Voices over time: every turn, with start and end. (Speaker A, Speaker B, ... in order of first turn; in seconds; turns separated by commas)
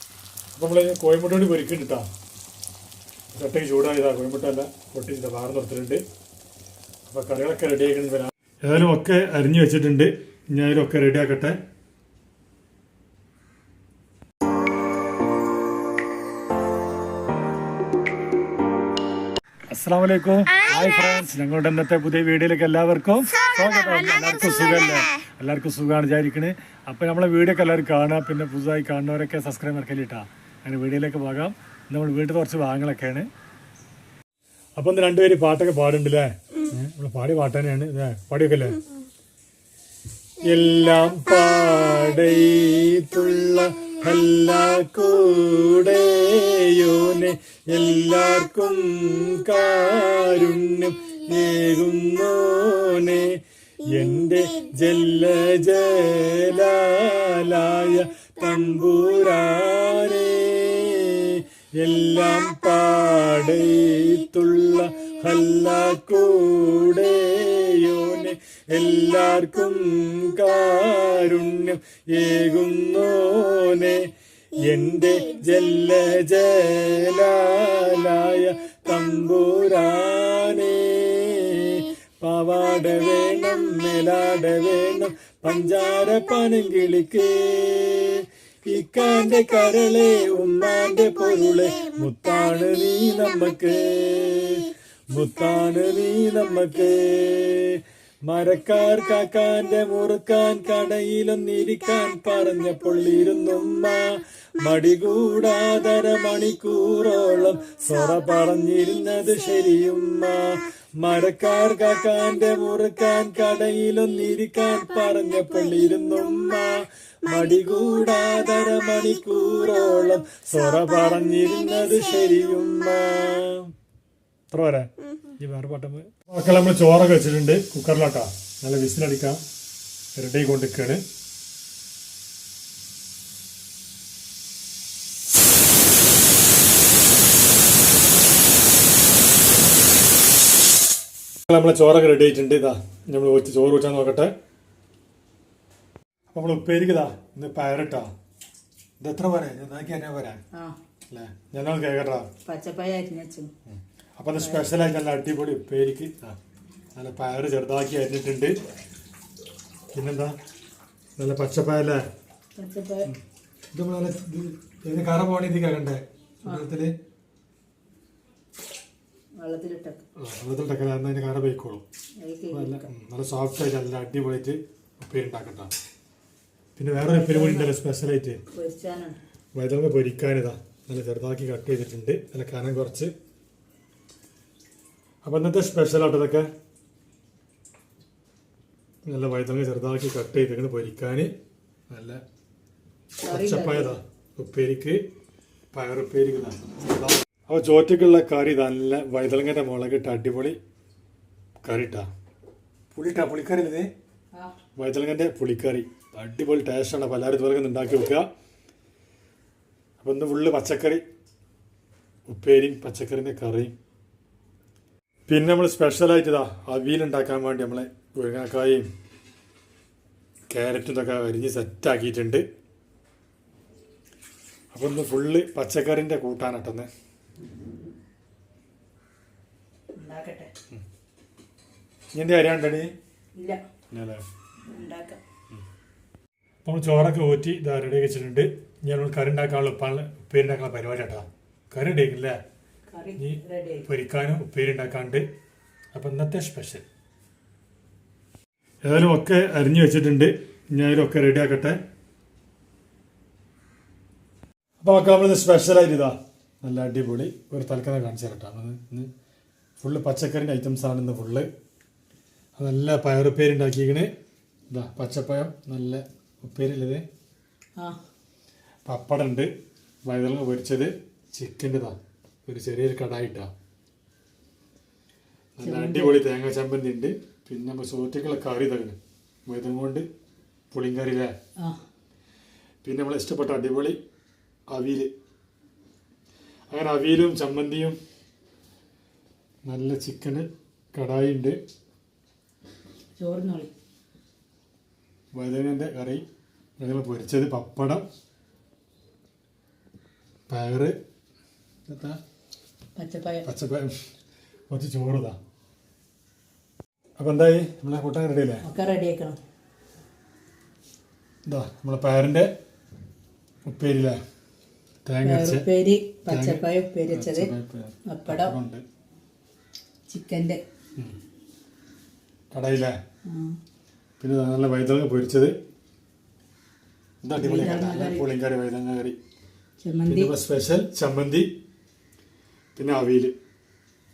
Speaker A: 0.6-2.0, Speaker A: 3.3-6.0, Speaker A: 7.0-11.6, Speaker A: 19.7-33.3, Speaker A: 34.8-38.8, Speaker A: 40.5-123.7, Speaker A: 124.5-129.4, Speaker A: 130.1-131.0, Speaker A: 141.5-144.3, Speaker A: 146.3-148.1, Speaker A: 149.0-150.4, Speaker A: 151.1-152.3, Speaker B: 152.4-153.5, Speaker A: 153.7-156.4, Speaker B: 154.4-154.7, Speaker A: 156.9-158.6, Speaker A: 159.9-160.3, Speaker A: 161.2-162.0, Speaker B: 162.6-163.1, Speaker A: 163.7-166.9, Speaker B: 169.4-170.0, Speaker A: 170.2-171.8, Speaker B: 172.2-172.9, Speaker A: 172.5-175.7, Speaker A: 176.8-178.4, Speaker B: 177.0-177.7, Speaker B: 178.5-179.2, Speaker A: 179.5-183.1, Speaker A: 185.2-186.5, Speaker A: 189.1-191.3, Speaker A: 191.9-192.2, Speaker B: 193.2-193.9, Speaker A: 193.3-195.0, Speaker A: 195.7-200.6, Speaker A: 201.6-202.1, Speaker A: 202.9-203.9, Speaker A: 204.8-208.2, Speaker A: 210.0-211.0, Speaker A: 212.3-213.7, Speaker A: 215.3-218.9, Speaker A: 220.5-222.4, Speaker A: 224.7-226.9, Speaker B: 230.0-230.5, Speaker A: 232.1-232.9, Speaker B: 233.3-233.6, Speaker A: 233.9-234.2, Speaker B: 234.7-235.2, Speaker A: 236.6-242.4, Speaker B: 242.9-243.8, Speaker A: 243.2-245.2, Speaker A: 245.9-246.8, Speaker A: 248.8-251.8, Speaker A: 254.8-259.1, Speaker A: 259.8-261.5, Speaker A: 262.6-264.1, Speaker A: 264.7-267.0, Speaker A: 268.9-269.5, Speaker A: 270.1-273.5, Speaker A: 275.6-280.1, Speaker B: 275.6-276.1, Speaker A: 280.7-281.3, Speaker A: 282.8-284.0, Speaker A: 284.7-285.1, Speaker A: 286.7-288.0, Speaker A: 289.6-291.6, Speaker B: 293.2-293.7, Speaker A: 295.3-296.2, Speaker A: 296.8-298.0, Speaker A: 300.5-300.9, Speaker A: 301.9-302.2, Speaker B: 302.9-303.5, Speaker A: 303.4-304.0, Speaker A: 304.7-305.4, Speaker A: 307.2-308.6, Speaker B: 308.6-309.4, Speaker A: 311.4-312.5, Speaker A: 313.6-314.2, Speaker A: 315.1-315.7, Speaker B: 315.2-317.5, Speaker A: 316.3-318.8, Speaker B: 318.1-318.5, Speaker B: 320.1-320.6, Speaker A: 322.5-322.9, Speaker B: 323.3-323.6, Speaker A: 324.2-325.5, Speaker A: 327.2-329.1, Speaker B: 327.4-328.2, Speaker B: 329.8-330.3, Speaker A: 330.1-331.5, Speaker A: 332.7-333.3